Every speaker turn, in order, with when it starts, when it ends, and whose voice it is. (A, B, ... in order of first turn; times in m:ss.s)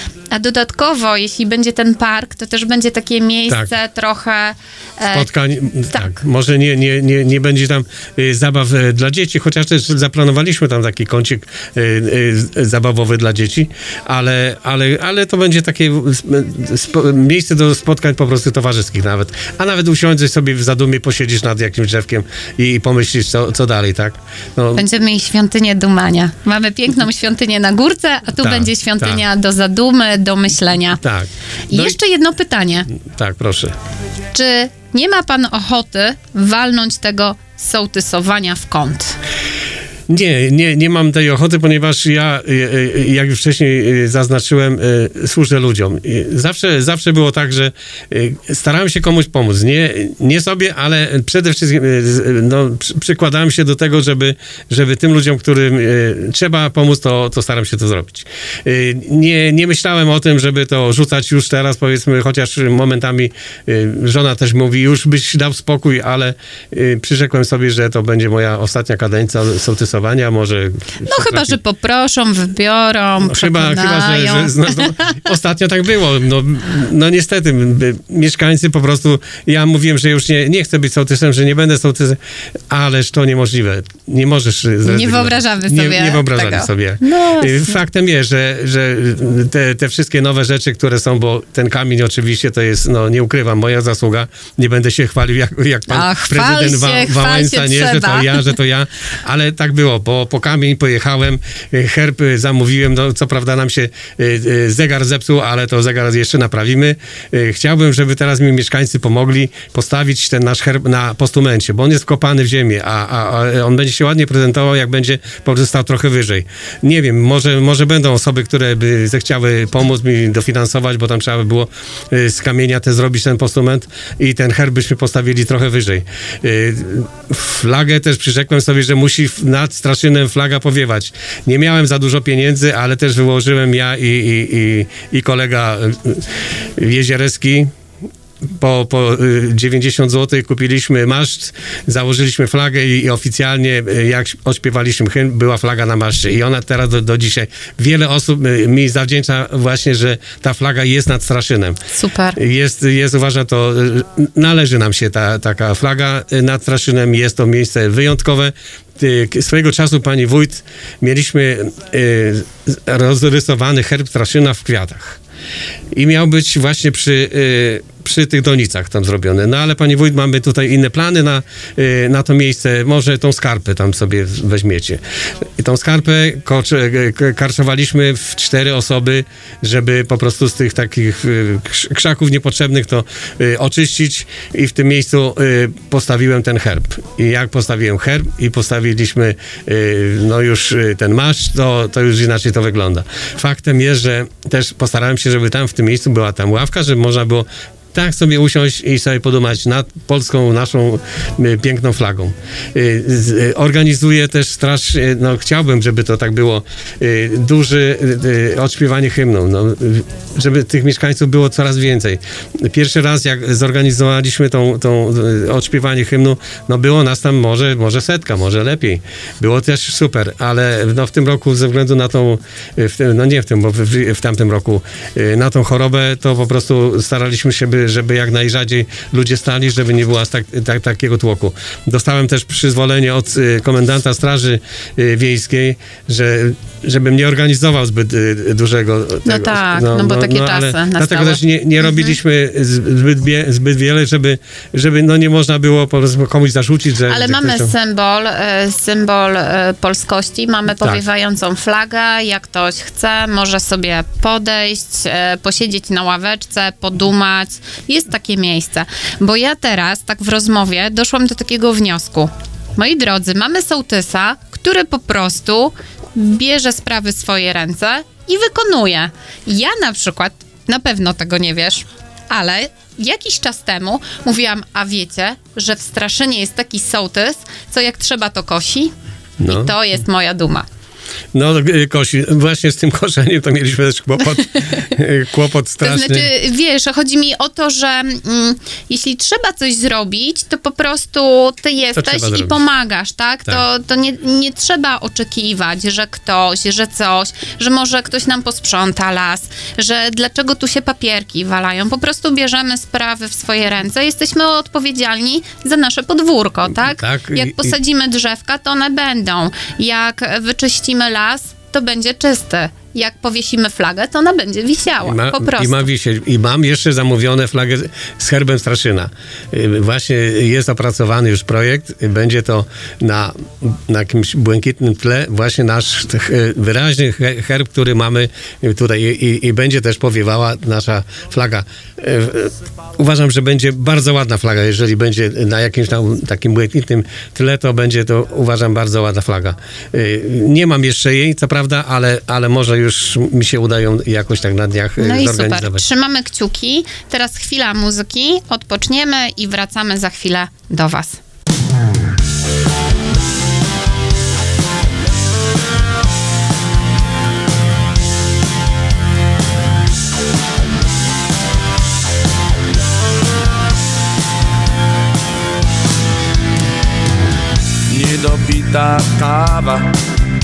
0:00.3-0:05.3 A
0:05.1-0:24.8 B
0:24.7-0:31.0 A
0:28.4-0:29.2 B
0:31.0-0:32.0 B
0:31.7-0:32.9 A
0:33.0-0:33.7 B
0:34.3-0:39.2 A
0:40.1-1:11.6 B
1:11.0-1:15.2 A
1:13.2-1:22.2 B
1:22.7-2:17.7 B
1:24.8-1:27.8 A
1:35.9-1:38.5 A
2:18.6-2:31.8 B
2:31.9-2:32.4 A
2:32.4-2:45.2 B
2:45.9-2:55.0 B
2:55.6-4:07.7 B
3:59.2-4:02.2 A
4:07.1-4:38.9 A
4:39.4-4:39.7 B
4:39.4-4:40.6 A
4:41.3-4:46.3 B
4:45.8-5:15.9 A
4:52.0-4:52.6 B
5:06.8-5:07.7 B
5:15.0-5:45.8 B
5:45.0-5:51.2 A
6:07.9-6:10.0 C